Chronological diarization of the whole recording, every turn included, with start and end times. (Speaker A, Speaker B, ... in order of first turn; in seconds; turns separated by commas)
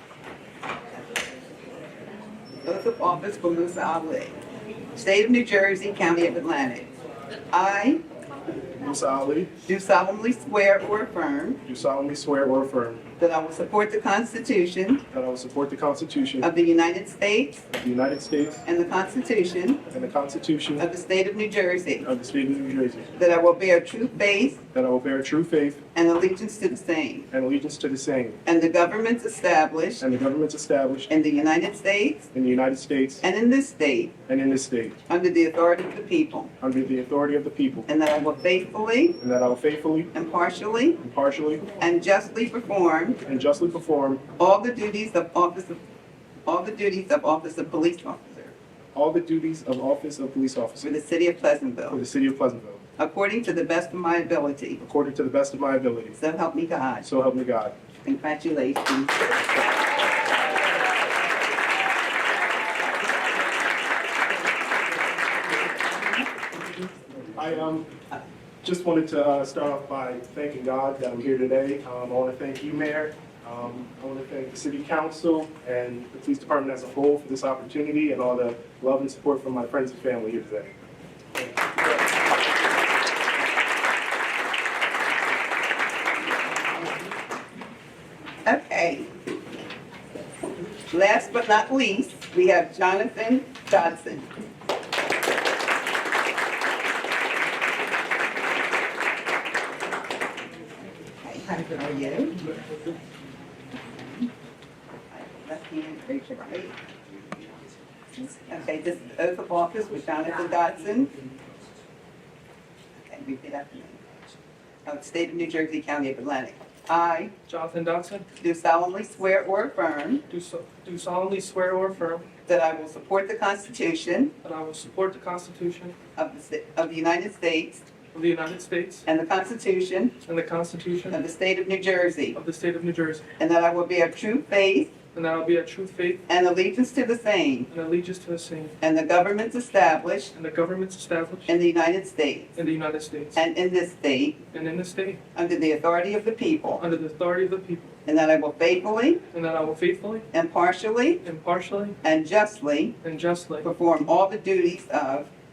Speaker A: 2.6-4.4, Speaker A: 4.9-6.9, Speaker A: 7.5-8.0, Speaker B: 8.8-9.5, Speaker A: 9.7-11.6, Speaker B: 11.7-13.0, Speaker A: 13.2-15.0, Speaker B: 15.1-16.5, Speaker A: 16.4-17.6, Speaker B: 17.7-18.6, Speaker A: 18.6-19.8, Speaker B: 19.9-20.9, Speaker A: 20.8-22.1, Speaker B: 22.0-23.1, Speaker A: 23.2-24.6, Speaker B: 24.7-25.8, Speaker A: 25.9-27.3, Speaker B: 27.3-28.4, Speaker A: 28.5-30.0, Speaker B: 30.0-31.1, Speaker A: 31.1-32.3, Speaker B: 32.3-33.2, Speaker A: 33.2-34.1, Speaker B: 34.3-35.0, Speaker A: 35.1-36.5, Speaker B: 36.6-37.9, Speaker A: 37.9-39.2, Speaker B: 39.2-40.1, Speaker A: 40.1-41.0, Speaker B: 41.0-41.7, Speaker A: 41.8-43.2, Speaker B: 43.2-44.2, Speaker A: 44.4-45.8, Speaker A: 46.5-48.5, Speaker B: 49.0-50.9, Speaker A: 50.8-52.0, Speaker B: 51.9-52.8, Speaker A: 53.0-54.8, Speaker B: 54.8-56.2, Speaker A: 56.2-57.0, Speaker B: 57.0-57.8, Speaker A: 58.0-59.3, Speaker B: 67.4-67.9, Speaker B: 68.6-80.7, Speaker A: 88.5-89.1, Speaker A: 90.9-94.3, Speaker A: 101.2-102.4, Speaker A: 105.1-106.8, Speaker A: 108.2-111.1, Speaker A: 113.0-114.0, Speaker A: 114.9-117.3, Speaker C: 117.5-118.3, Speaker A: 118.4-120.2, Speaker C: 120.3-122.3, Speaker A: 122.5-124.3, Speaker C: 124.4-126.0, Speaker A: 126.2-127.8, Speaker C: 128.1-129.1, Speaker A: 129.1-130.2, Speaker C: 130.2-131.2, Speaker A: 131.1-132.4, Speaker C: 132.3-133.2, Speaker A: 133.4-134.9, Speaker C: 135.1-136.2, Speaker A: 136.3-137.7, Speaker C: 137.7-138.8, Speaker A: 138.8-140.3, Speaker C: 140.3-141.5, Speaker A: 141.5-142.6, Speaker C: 142.6-143.4, Speaker A: 143.3-144.4, Speaker C: 144.5-145.2, Speaker A: 145.3-146.8, Speaker C: 146.8-147.9, Speaker A: 148.1-149.2, Speaker C: 149.3-150.3, Speaker A: 150.3-151.2, Speaker C: 151.2-152.0, Speaker A: 152.0-153.0, Speaker C: 153.0-153.7, Speaker A: 153.6-155.3